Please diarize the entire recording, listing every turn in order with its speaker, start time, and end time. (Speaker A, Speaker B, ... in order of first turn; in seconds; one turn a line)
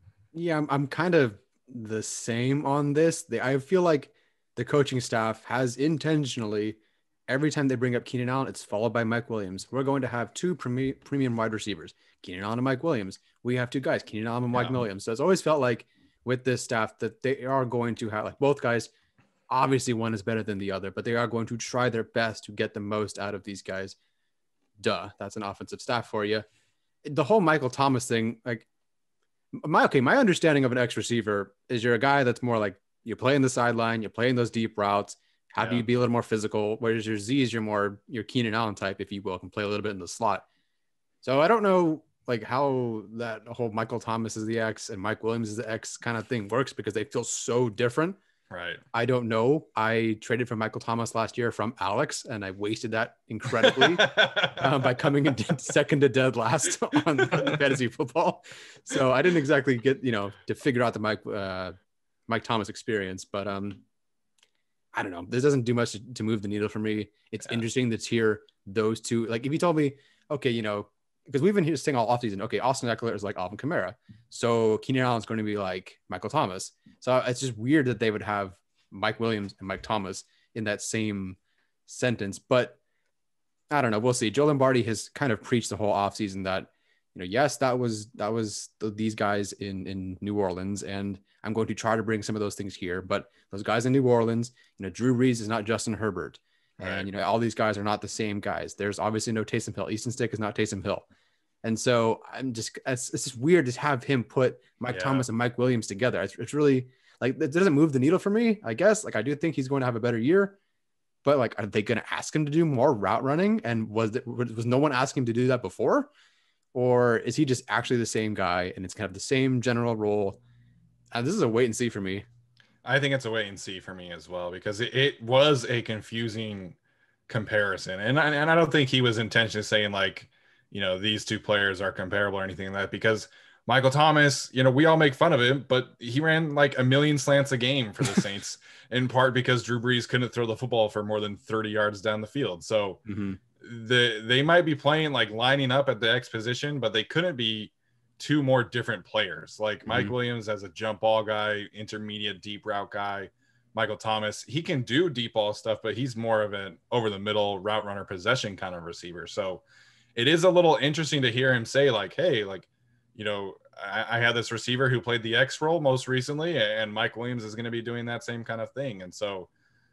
Speaker A: 0.3-18.9
Speaker B: 14.5-14.8
Speaker A: 19.5-23.9
Speaker A: 24.8-26.4
Speaker A: 27.0-28.7
Speaker A: 29.5-40.4
Speaker B: 35.6-35.9
Speaker A: 41.2-48.2
Speaker B: 48.5-48.8
Speaker A: 48.9-61.7
Speaker B: 53.7-54.7
Speaker B: 57.3-57.6
Speaker A: 62.3-63.8
Speaker A: 64.9-82.8
Speaker A: 83.7-101.0
Speaker B: 96.8-97.1
Speaker A: 101.6-110.6
Speaker B: 104.9-105.2
Speaker A: 111.2-116.1
Speaker A: 116.7-120.4
Speaker A: 121.1-122.2
Speaker B: 122.8-126.8
Speaker B: 127.3-143.0
Speaker A: 143.1-143.4
Speaker B: 143.6-159.6
Speaker A: 149.8-150.1
Speaker B: 160.2-169.5